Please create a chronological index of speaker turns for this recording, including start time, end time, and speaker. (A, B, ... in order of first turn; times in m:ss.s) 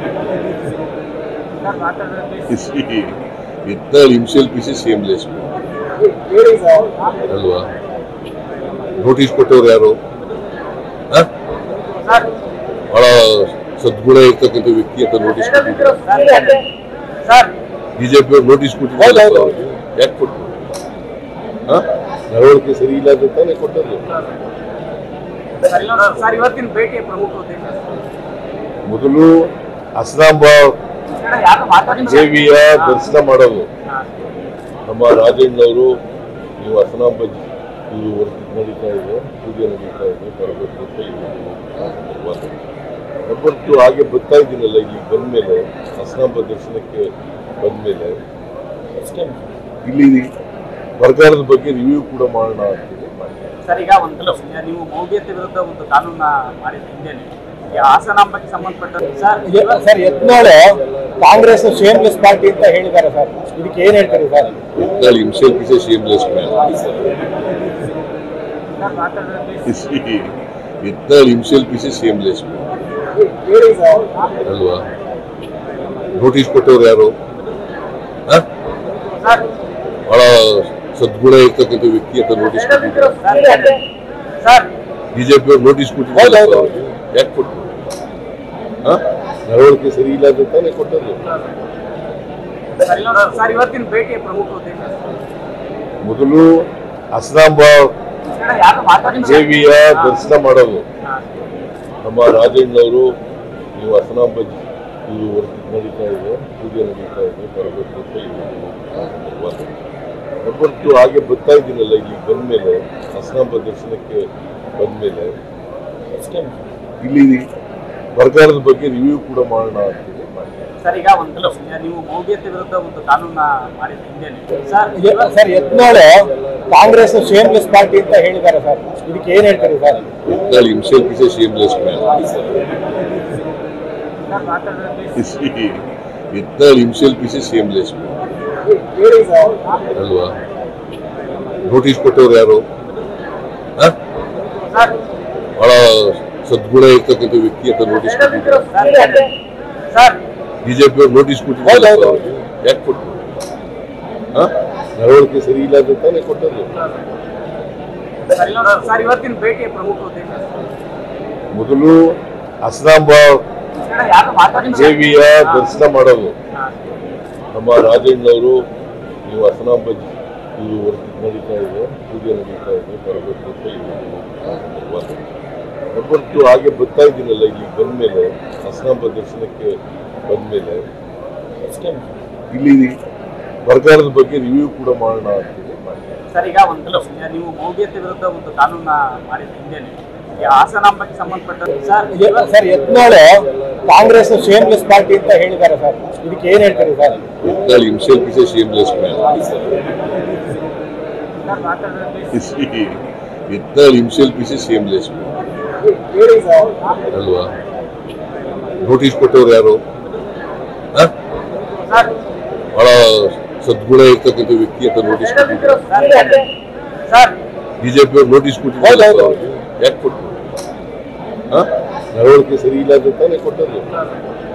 0:01.6-0:02.5 A
0:02.5-0:05.5 B
0:06.3-0:06.8 C
0:07.3-0:07.7 B
0:09.0-0:10.0 B
0:11.9-0:12.3 A
0:12.9-0:16.1 B
0:15.6-0:16.6 A
0:17.2-0:17.5 A
0:18.0-0:20.5 B
0:21.7-0:24.0 B
0:25.6-0:27.8 A
0:28.9-0:29.3 B
0:30.0-0:30.8 B
0:31.1-0:33.0 A
0:32.0-0:33.7 B
0:33.9-0:34.1 A
0:34.9-0:35.9 B
0:36.6-0:42.6 B
0:43.3-0:47.0 B
0:47.6-0:48.1 B
0:49.0-0:49.4 A
0:49.8-0:50.2 B
0:51.0-0:53.5 B
0:53.7-0:59.9 A
0:59.5-1:00.6 C
1:01.2-1:04.5 C
1:04.8-1:06.5 B
1:08.8-1:09.6 A
1:09.6-1:12.6 B
1:13.4-1:14.0 C
1:14.4-1:14.9 B
1:16.1-1:17.1 B
1:19.1-1:19.5 A
1:20.1-1:23.2 B
1:23.1-1:23.8 A
1:24.4-1:24.7 A
1:25.1-1:27.7 B
1:28.8-1:31.2 B
1:32.8-1:35.0 A
1:36.0-1:36.5 B
1:37.1-1:37.9 B
1:38.3-1:40.2 A
1:39.1-1:40.8 B
1:42.0-1:43.1 B
1:43.8-1:49.7 B
1:50.4-1:54.2 B
1:54.8-1:55.3 B
1:57.0-1:57.4 B
1:58.2-2:00.7 B
2:00.8-2:05.5 A
2:05.0-2:06.1 C
2:06.7-2:10.0 C
2:10.3-2:12.0 B
2:14.3-2:15.1 A
2:15.2-2:18.1 B
2:18.9-2:19.5 C
2:19.9-2:20.4 B
2:21.6-2:22.6 B
2:24.6-2:25.0 A
2:25.6-2:28.8 B
2:28.6-2:29.3 A
2:29.9-2:30.2 A
2:30.6-2:33.2 B
2:34.3-2:36.7 B
2:38.3-2:40.5 A
2:41.5-2:42.0 B
2:42.6-2:43.4 B
2:43.8-2:45.7 A
2:44.6-2:46.3 B
2:47.5-2:48.6 B
2:49.2-2:55.2 B
2:55.9-2:59.7 B
3:00.3-3:00.8 B
3:01.6-3:02.0 A
3:02.5-3:02.9 B
3:03.6-3:06.2 B
3:06.3-3:12.5 A
3:12.1-3:17.2 C
3:17.4-3:19.2 B
3:21.4-3:22.3 A
3:22.3-3:25.3 B
3:26.1-3:26.7 C
3:27.1-3:27.5 B
3:28.8-3:29.8 B
3:31.7-3:32.1 A
3:32.7-3:35.9 B
3:35.8-3:36.5 A
3:37.1-3:37.4 A
3:37.8-3:40.4 B
3:41.5-3:43.8 B